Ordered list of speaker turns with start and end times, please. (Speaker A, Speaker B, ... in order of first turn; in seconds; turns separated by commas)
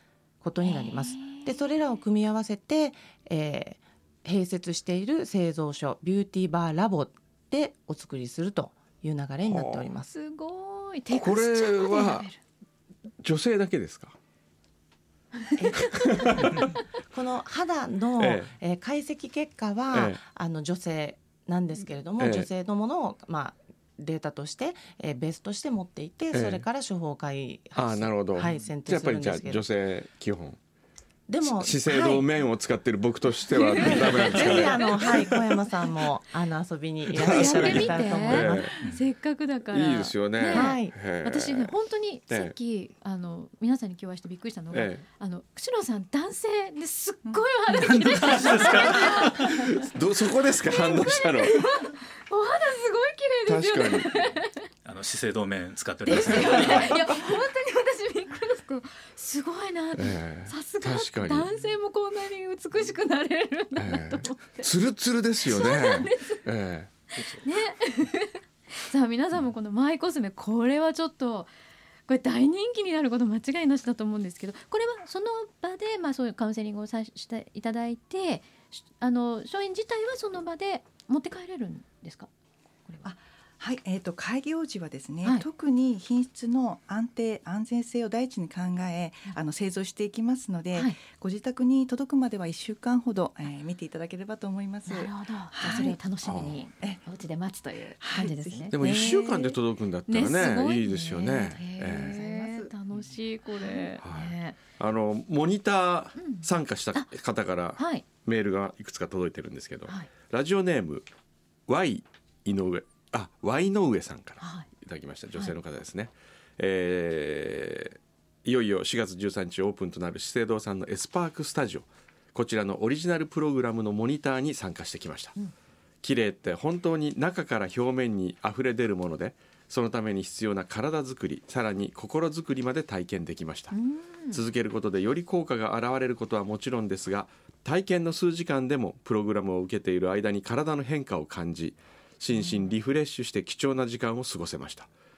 Speaker A: 0.4-10.1, Speaker B: 0.6-1.6, Speaker C: 9.4-9.9, Speaker B: 10.1-12.4, Speaker C: 11.1-12.2, Speaker C: 13.2-14.1, Speaker B: 15.5-16.6, Speaker A: 15.6-29.7, Speaker C: 15.9-16.5, Speaker C: 18.2-18.5, Speaker C: 19.9-20.2, Speaker C: 22.2-22.5, Speaker C: 26.3-26.6, Speaker C: 27.8-30.6, Speaker A: 31.3-32.3, Speaker C: 31.4-35.4, Speaker B: 33.5-35.0, Speaker A: 33.7-38.7, Speaker C: 37.1-38.7, Speaker B: 37.2-49.9, Speaker C: 39.7-41.7, Speaker A: 40.5-41.0, Speaker C: 42.3-42.5, Speaker C: 44.7-45.0, Speaker D: 47.7-49.5, Speaker C: 48.6-51.5, Speaker B: 50.6-54.6, Speaker C: 53.5-54.1, Speaker D: 54.8-57.0, Speaker B: 56.0-64.7, Speaker C: 60.0-61.5, Speaker C: 63.8-66.9, Speaker B: 65.4-66.4, Speaker D: 67.2-67.4, Speaker B: 67.3-71.5, Speaker B: 72.1-82.3, Speaker B: 82.8-83.1, Speaker E: 83.0-96.0, Speaker B: 94.8-98.8, Speaker C: 96.2-96.6, Speaker E: 98.0-99.6, Speaker C: 98.7-102.2, Speaker B: 100.1-104.6, Speaker E: 101.9-102.7, Speaker E: 103.6-103.9, Speaker C: 104.0-111.1, Speaker B: 106.2-107.1, Speaker B: 107.8-108.0, Speaker C: 111.7-125.3, Speaker B: 114.4-114.7, Speaker C: 126.0-133.8, Speaker B: 133.7-134.4, Speaker C: 134.3-144.9, Speaker B: 142.3-142.7